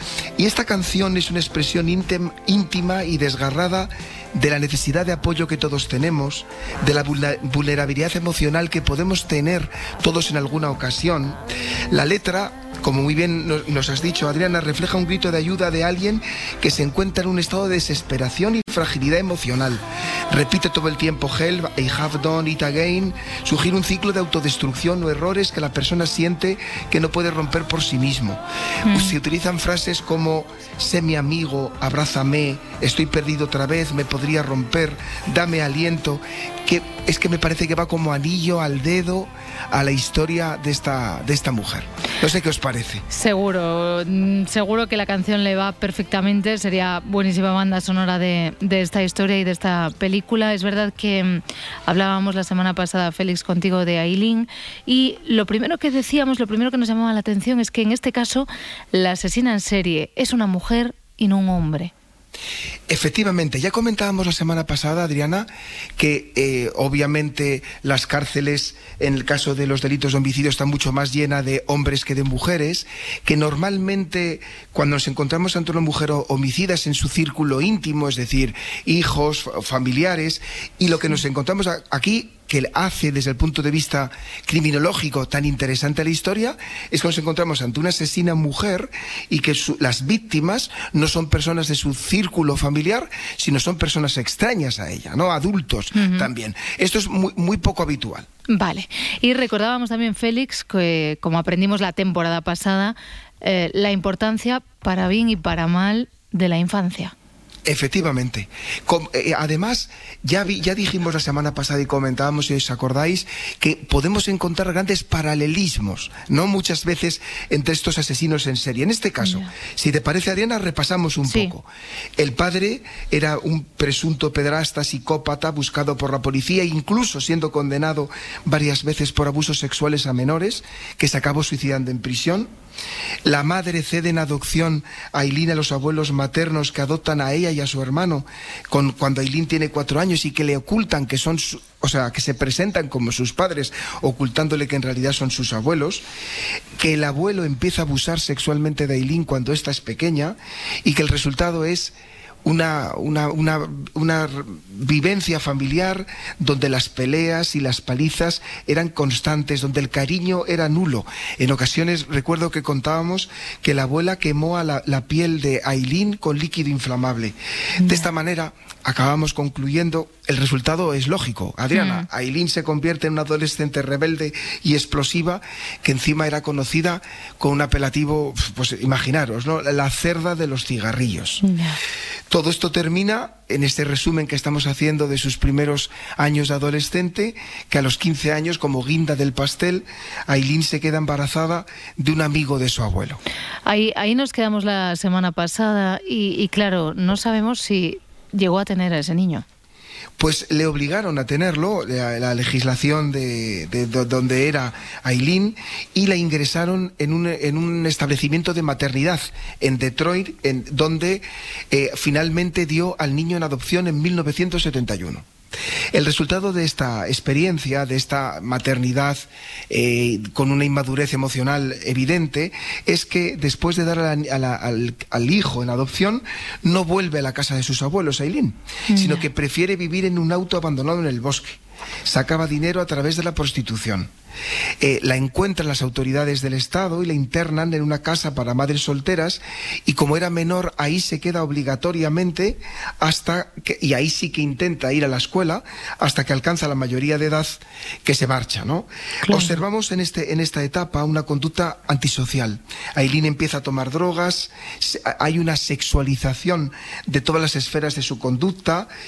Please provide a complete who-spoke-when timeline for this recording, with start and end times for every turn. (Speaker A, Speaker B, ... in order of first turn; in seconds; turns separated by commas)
Speaker A: 0.4-43.0, Speaker B: 28.9-29.2, Speaker B: 43.1-61.9, Speaker A: 62.9-98.3, Speaker B: 96.0-96.3, Speaker B: 98.5-107.1, Speaker A: 107.7-121.7, Speaker B: 119.2-119.5, Speaker B: 121.2-121.5, Speaker A: 122.2-132.5, Speaker A: 133.3-146.0, Speaker A: 146.8-181.4, Speaker B: 167.8-168.1, Speaker B: 171.7-172.1, Speaker B: 181.4-181.8, Speaker A: 182.3-193.2, Speaker B: 193.7-199.4, Speaker A: 200.2-215.3, Speaker A: 215.9-234.1, Speaker B: 228.9-229.2, Speaker A: 234.8-258.9, Speaker B: 249.2-249.6